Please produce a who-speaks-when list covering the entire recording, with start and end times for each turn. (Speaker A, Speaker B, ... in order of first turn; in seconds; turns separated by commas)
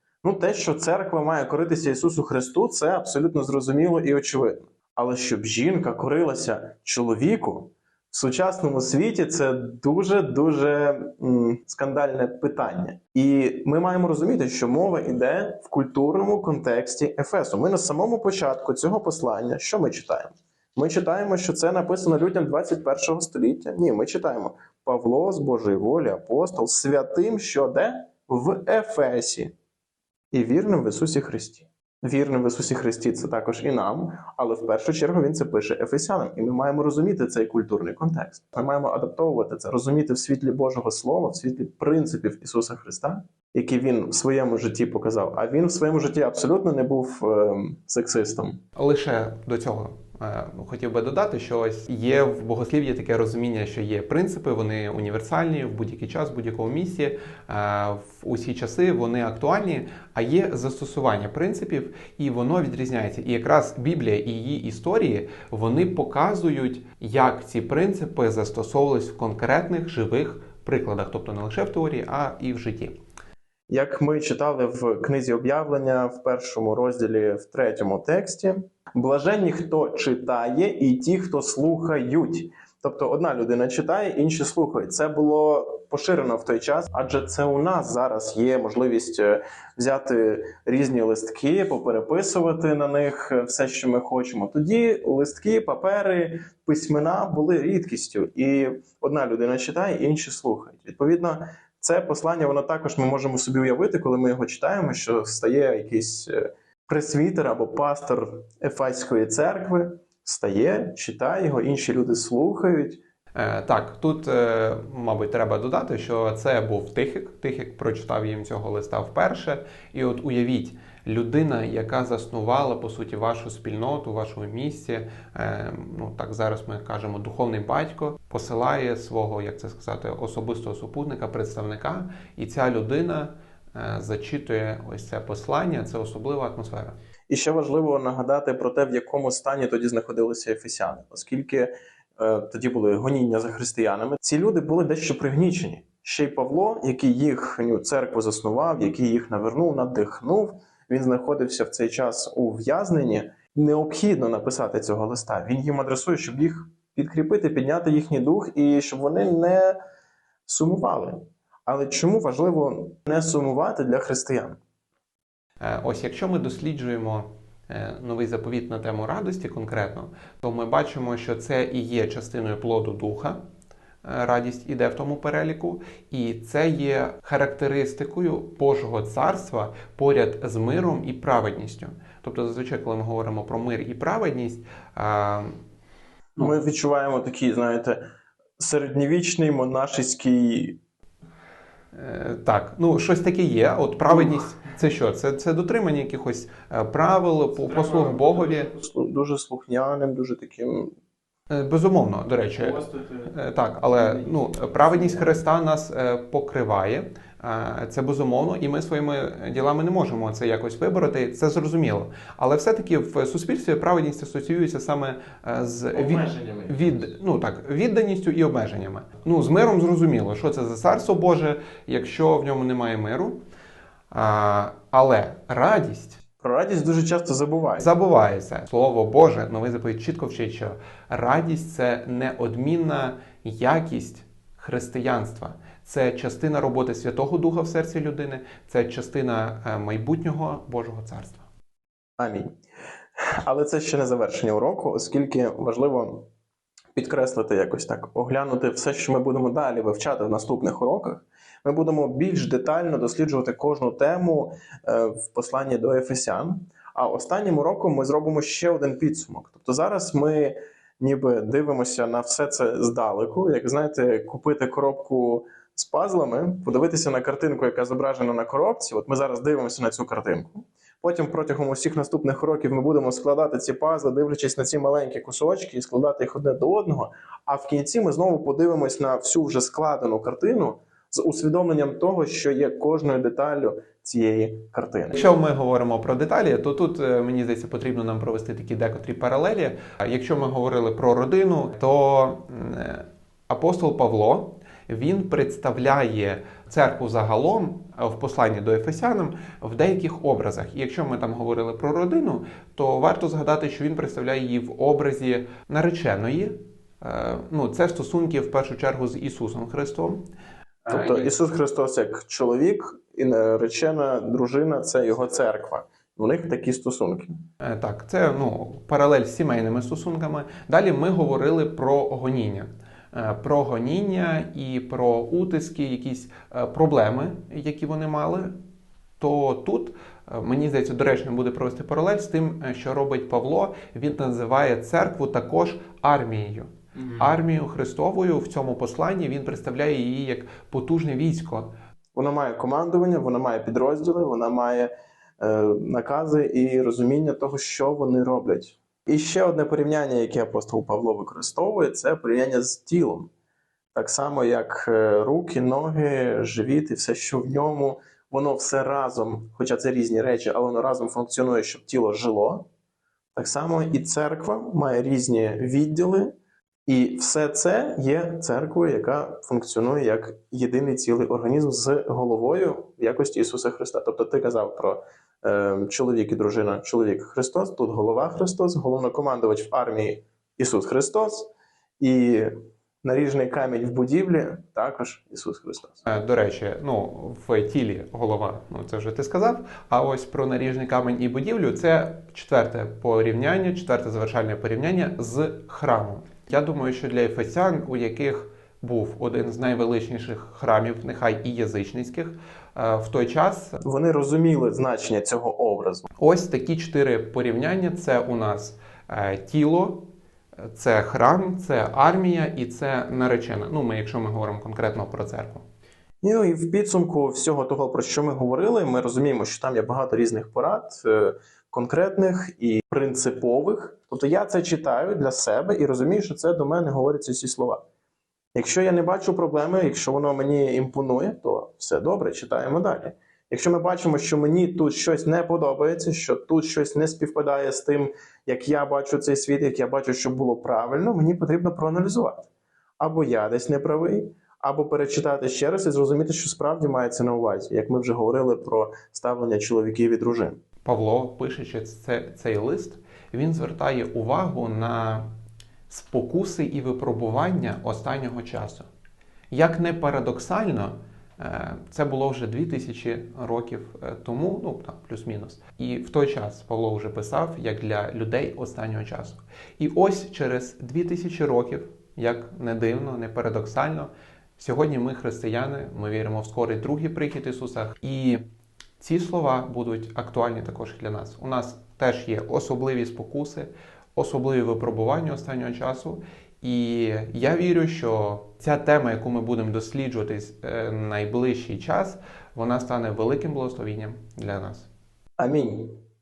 Speaker A: 0.2-29.5, Speaker A: 30.3-48.6, Speaker B: 48.8-73.0, Speaker A: 73.7-113.0, Speaker B: 113.3-137.0, Speaker A: 137.3-159.8, Speaker A: 160.5-164.6, Speaker B: 165.6-173.4, Speaker B: 174.0-185.6, Speaker A: 186.4-188.0, Speaker A: 188.6-190.8, Speaker B: 191.9-198.7, Speaker A: 197.7-200.9, Speaker B: 201.5-223.4, Speaker A: 202.7-203.3, Speaker A: 216.0-216.7, Speaker B: 224.1-226.2, Speaker A: 226.4-227.9, Speaker B: 227.8-241.4, Speaker A: 242.2-242.6, Speaker A: 243.4-246.3, Speaker A: 246.9-285.2, Speaker B: 285.1-310.2, Speaker B: 310.9-311.3, Speaker A: 310.9-317.4, Speaker B: 317.6-328.5, Speaker B: 329.2-341.7, Speaker A: 342.1-353.3, Speaker A: 353.9-362.7, Speaker A: 363.3-366.4, Speaker A: 366.9-386.1, Speaker B: 386.1-403.8, Speaker A: 403.8-406.1, Speaker B: 406.2-410.1, Speaker B: 410.6-415.6, Speaker A: 416.2-427.8, Speaker A: 428.6-442.5, Speaker A: 443.0-450.6, Speaker B: 450.9-455.3, Speaker B: 455.9-458.9, Speaker B: 459.5-478.4, Speaker B: 479.0-494.9, Speaker A: 495.4-496.0